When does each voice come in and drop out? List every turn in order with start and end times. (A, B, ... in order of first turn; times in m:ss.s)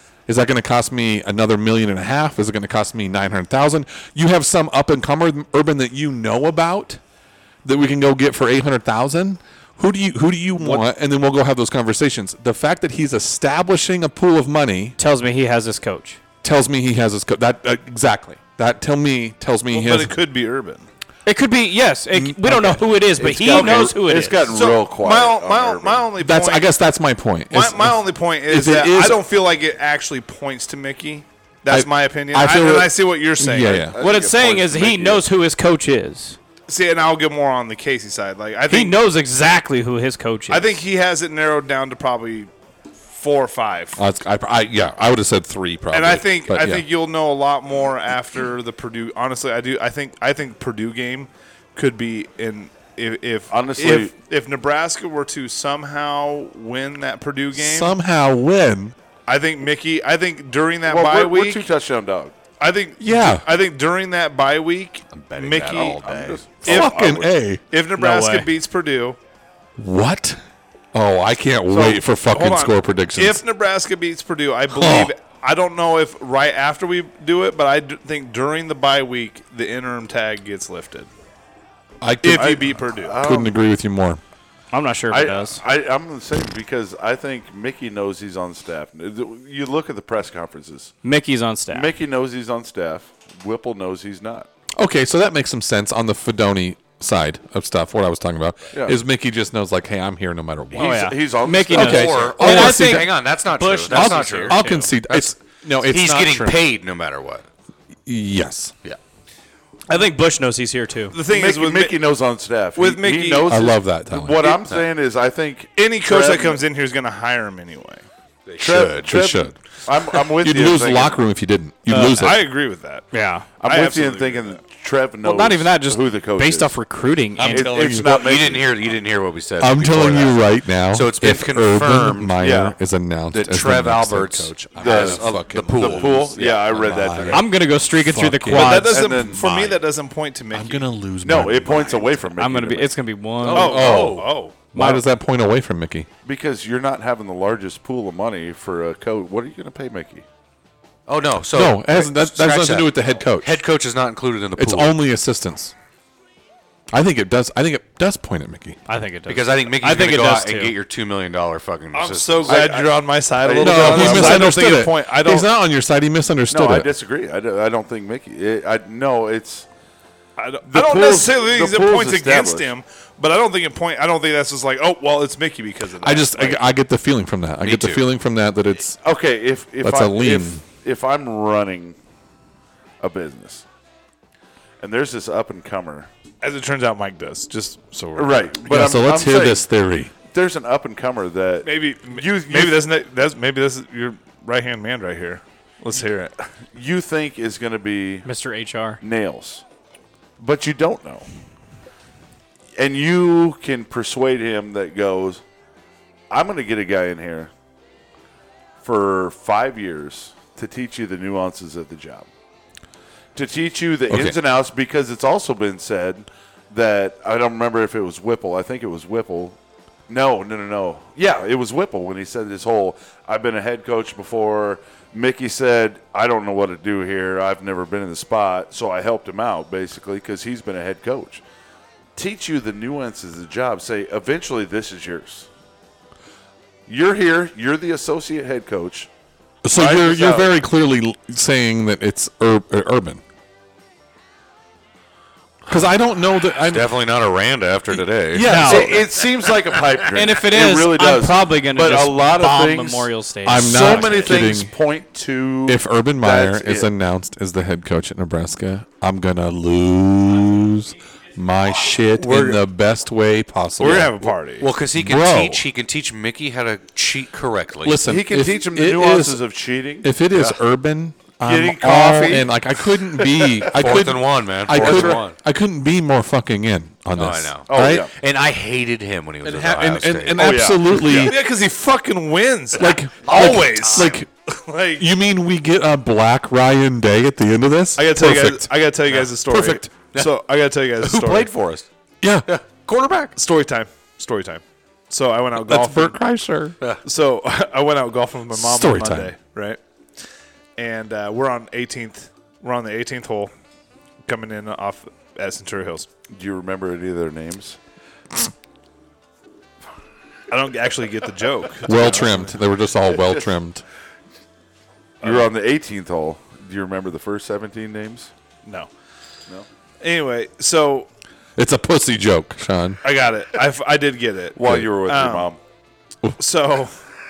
0:00.3-0:07.0 A
0:07.6-0:15.0 A
0:15.0-0:16.2 B
0:16.4-0:20.2 A
0:19.7-0:20.9 C
0:21.2-0:24.5 B
0:22.1-0:24.0 A
0:23.4-0:26.1 D
0:24.5-0:26.6 C
0:26.2-0:29.2 A
0:27.5-0:33.9 C
0:31.7-0:33.9 A
0:33.9-0:35.2 D
0:34.0-0:36.4 B
0:36.7-0:38.9 C
0:38.7-0:40.8 B
0:40.5-0:42.5 C
0:43.1-0:44.0 C
0:44.0-0:46.8 A
0:45.9-0:57.9 C
0:53.5-0:54.1 D
0:57.6-0:58.9 A
0:59.3-1:01.6 C
1:00.8-1:02.4 D
1:02.6-1:06.0 C
1:03.0-1:03.4 A
1:05.1-1:06.6 E
1:06.0-1:07.3 D
1:06.6-1:07.6 A
1:06.7-1:07.0 C
1:07.7-1:09.2 C
1:08.0-1:08.5 B
1:09.8-1:10.4 A
1:10.9-1:13.4 A
1:11.7-1:21.1 C
1:14.7-1:15.1 A
1:22.0-1:24.2 A
1:22.2-1:23.2 C
1:22.3-1:23.5 D
1:24.7-1:25.6 B
1:25.1-1:30.9 D
1:31.0-1:31.9 B
1:31.7-1:34.5 D
1:34.8-1:41.1 A
1:38.7-1:39.0 D
1:40.7-1:42.4 D
1:40.7-1:44.9 B
1:41.7-1:43.1 A
1:41.8-1:45.3 E
1:43.9-1:46.6 A
1:45.8-1:47.4 E
1:48.0-1:48.7 A
1:49.9-1:51.2 B
1:51.1-1:52.0 C
1:51.3-1:56.6 D
1:52.8-1:53.5 C
1:53.5-1:54.6 A
1:54.5-1:54.9 E
1:55.8-1:58.0 C
1:58.4-1:59.2 E
1:58.6-2:01.2 D
1:59.0-1:59.6 A
2:00.1-2:02.5 A
2:01.9-2:02.1 B
2:02.1-2:03.1 C
2:03.1-2:03.5 B
2:03.6-2:06.7 D
2:03.6-2:04.6 C
2:05.2-2:07.8 B
2:07.4-2:12.4 E
2:07.5-2:08.8 D
2:09.6-2:19.5 A
2:12.4-2:12.8 D
2:13.3-2:17.3 E
2:14.8-2:17.5 D
2:17.3-2:19.0 B
2:18.5-2:20.9 C
2:18.6-2:19.7 D
2:20.5-2:22.0 A
2:21.2-2:23.0 D
2:22.4-2:24.1 B
2:23.5-2:26.1 A
2:23.5-2:24.6 C
2:23.6-2:24.2 E
2:24.7-2:25.0 B
2:26.2-2:30.2 D
2:31.1-2:35.0 E
2:31.5-2:33.6 A
2:34.6-2:35.7 A
2:36.9-2:38.8 A
2:38.9-2:40.7 B
2:39.3-2:42.7 E
2:41.9-2:45.5 C
2:42.5-2:44.6 D
2:43.6-2:46.9 A
2:46.5-2:49.6 D
2:50.4-2:56.6 C
2:50.7-2:52.7 D
2:56.0-2:59.0 A
2:57.6-2:58.0 E
2:59.0-3:02.0 D
2:59.8-3:00.6 A
3:03.0-3:03.6 D
3:04.8-3:06.1 D
3:06.4-3:08.5 C
3:08.1-3:09.6 D
3:08.6-3:10.1 A
3:10.3-3:12.9 D
3:11.6-3:16.4 C
3:16.7-3:18.3 D
3:18.2-3:19.0 B
3:19.0-3:19.6 D
3:20.4-3:21.3 D
3:22.8-3:25.4 D
3:26.3-3:27.5 D
3:28.8-3:32.3 D
3:33.3-3:39.6 D
3:34.1-3:34.4 A
3:40.1-3:51.4 D
3:52.1-3:55.5 D
3:56.9-3:59.1 D
3:59.6-4:03.2 A
3:59.7-4:00.5 D
4:05.7-4:06.9 A
4:06.4-4:08.5 E
4:07.9-4:09.0 A
4:08.4-4:09.0 B
4:08.5-4:16.9 D
4:09.2-4:09.9 E
4:10.1-4:14.4 B
4:13.4-4:14.7 A
4:15.6-4:24.2 A
4:22.2-4:22.6 C
4:23.8-4:24.7 C
4:24.6-4:28.0 E
4:24.9-4:25.6 A
4:27.8-4:29.4 A
4:28.0-4:30.4 D
4:30.0-4:38.1 A
4:31.4-4:34.0 D
4:33.7-4:35.4 E
4:34.7-4:35.2 D
4:37.1-4:40.8 E
4:37.7-4:38.1 D
4:39.4-4:41.4 A
4:40.4-4:41.4 D
4:41.1-4:45.1 C
4:42.8-4:44.3 A
4:43.2-4:44.1 E
4:45.0-4:48.7 A
4:48.0-4:51.5 C
4:49.4-4:49.9 A
4:49.9-4:50.3 E
4:51.0-4:51.8 E
4:52.2-4:52.5 A
4:52.5-4:53.3 E
4:53.4-4:56.2 C
4:55.6-4:56.8 A
4:57.0-4:59.8 C
4:58.5-4:59.3 A
5:00.8-5:03.5 C
5:04.2-5:06.1 C
5:06.3-5:07.8 D
5:10.5-5:12.5 C
5:11.8-5:13.8 A
5:15.2-5:18.3 D
5:18.6-5:18.9 C
5:20.0-5:21.1 C
5:21.6-5:23.0 A
5:23.0-5:25.5 C
5:24.5-5:25.6 D
5:24.6-5:24.9 A
5:26.4-5:26.9 C